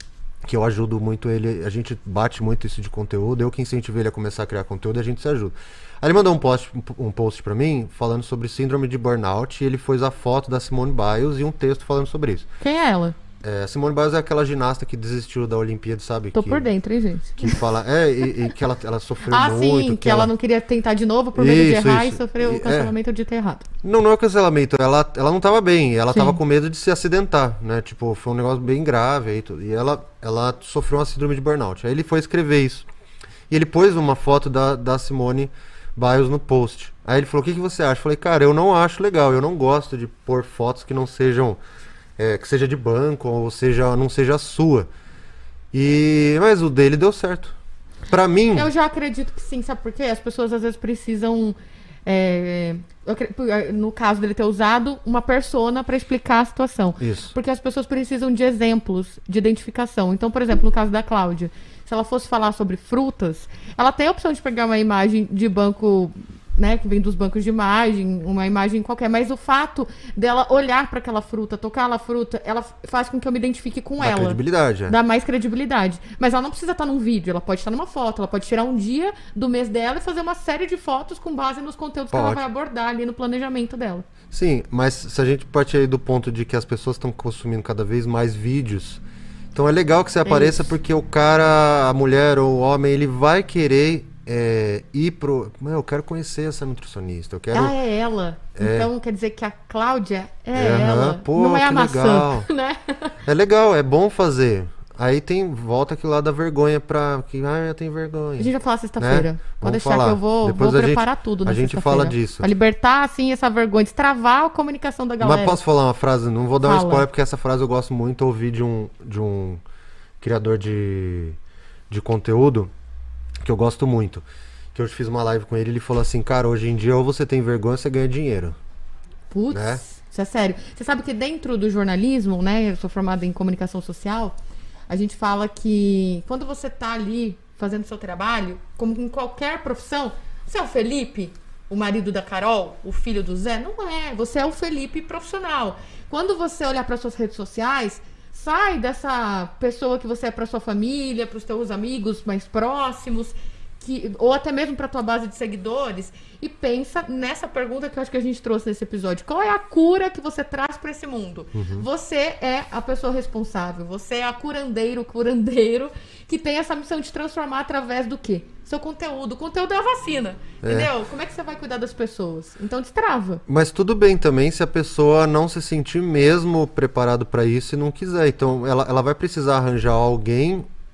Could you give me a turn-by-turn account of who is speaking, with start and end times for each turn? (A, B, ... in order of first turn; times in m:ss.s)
0:00.4-0:12.5 A
0:12.6-0:13.2 B
0:13.4-0:16.7 A
0:16.4-0:17.6 B
0:17.4-0:20.3 A
0:19.3-0:23.7 B
0:21.4-0:22.9 A
0:23.8-0:32.9 A
0:33.5-0:41.6 A
0:42.2-0:44.9 A
0:45.7-0:47.6 A
0:48.1-0:48.7 A
0:48.5-1:24.0 B
0:57.0-0:57.3 A
1:14.0-1:15.0 A
1:22.1-1:22.4 A
1:24.3-1:29.0 A
1:29.5-1:37.8 A
1:30.2-1:30.7 B
1:37.5-1:43.1 B
1:38.6-1:38.9 A
1:40.5-1:42.5 A
1:43.3-1:52.5 A
1:48.4-1:55.6 B
1:55.2-1:59.6 A
1:56.6-1:57.0 B
2:00.2-2:01.4 A
2:01.9-2:02.7 A
2:03.4-2:08.6 A
2:09.3-2:14.4 B
2:09.5-2:09.8 A
2:14.9-2:53.4 B
2:41.5-2:41.9 A
2:50.6-2:50.9 A
2:53.5-3:00.7 A